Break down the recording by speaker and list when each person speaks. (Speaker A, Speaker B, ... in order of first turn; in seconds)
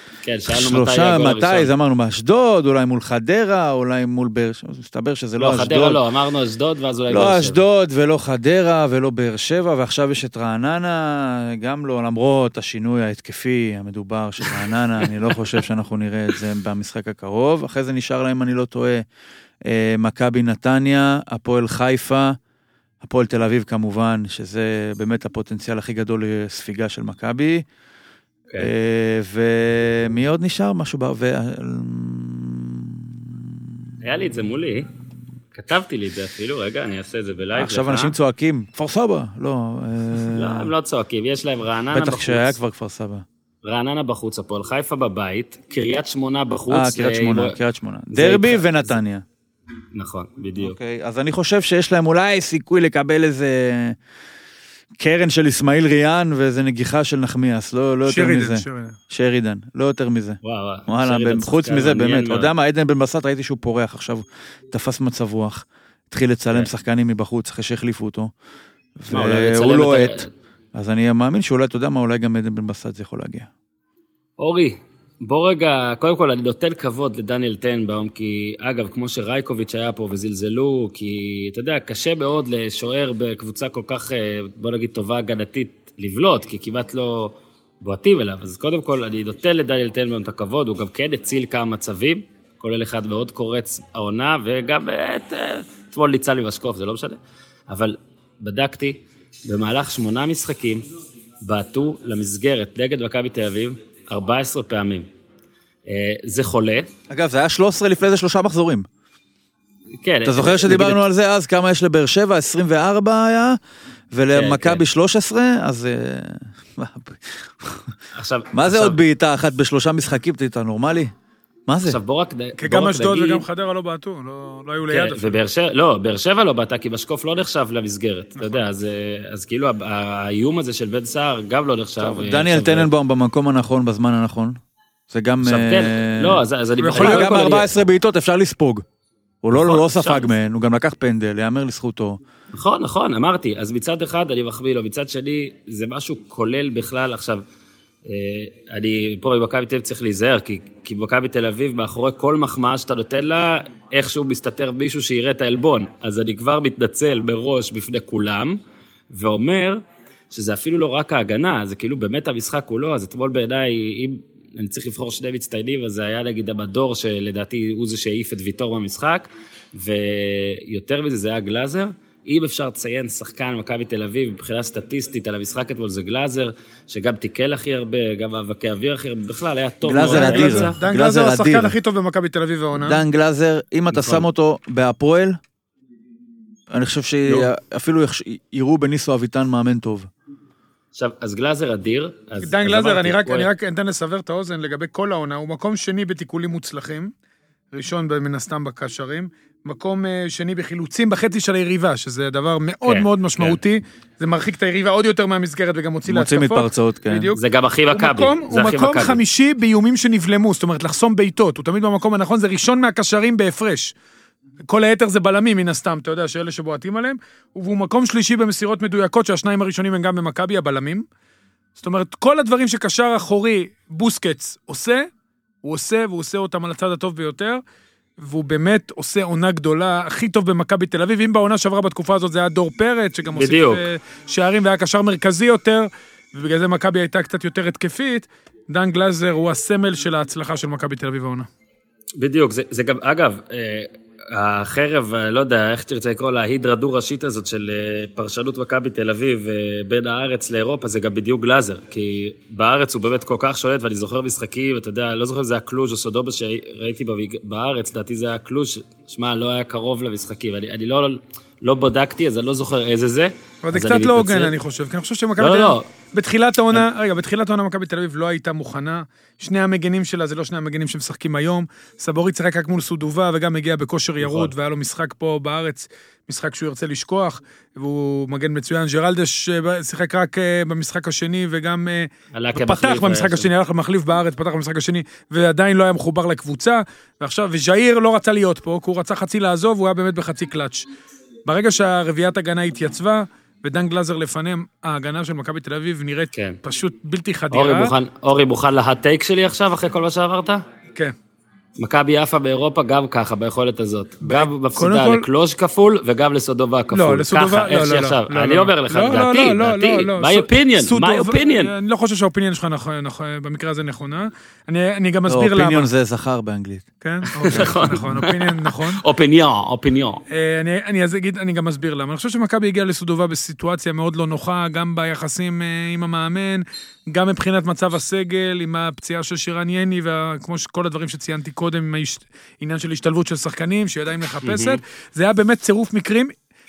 Speaker A: 0.2-1.7, 5.4-7.6, 34.0-34.9, 35.5-38.1, 40.3-42.5, 43.6-47.6, 48.1-49.0, 49.9-50.8, 60.4-62.5, 69.1-70.3, 74.4-100.8, 101.4-105.1, 105.8-106.9, 110.0-111.0, 114.3-114.8, 118.1-119.0, 121.8-123.4, 124.9-132.9, 135.4-137.7, 139.5-140.2, 142.5-147.4, 148.0-180.8, 183.9-184.2, 190.9-193.5, 202.8-203.6, 207.3-209.2, 233.3-233.8, 242.2-264.5, 265.4-265.9, 274.2-274.5, 282.3-283.5, 297.5-300.6, 301.8-311.7, 317.4-320.2, 334.4-334.8
Speaker B: 0.5-6.0, 7.1-19.1, 19.6-22.4, 23.0-27.6, 28.6-33.9, 37.5-40.7, 41.9-43.2, 46.7-49.2, 50.6-54.0, 55.0-68.3, 69.0-73.5, 107.1-108.9, 110.2-113.6, 114.1-117.9, 118.5-121.1, 121.7-122.0, 132.0-136.4, 136.9-138.8, 139.4-142.2, 179.8-181.8, 182.7-185.4, 186.7-190.1, 206.1-207.3, 315.3-316.8
Speaker C: 58.0-59.0, 122.6-125.4, 136.8-137.3, 180.1-183.0, 192.4-197.1, 197.7-207.4, 207.9-213.9, 214.7-221.0, 221.8-225.1, 225.6-227.6, 228.2-241.5, 263.6-290.9, 291.4-297.9, 304.2-305.2, 306.9-315.9, 317.0-319.0, 320.3-336.3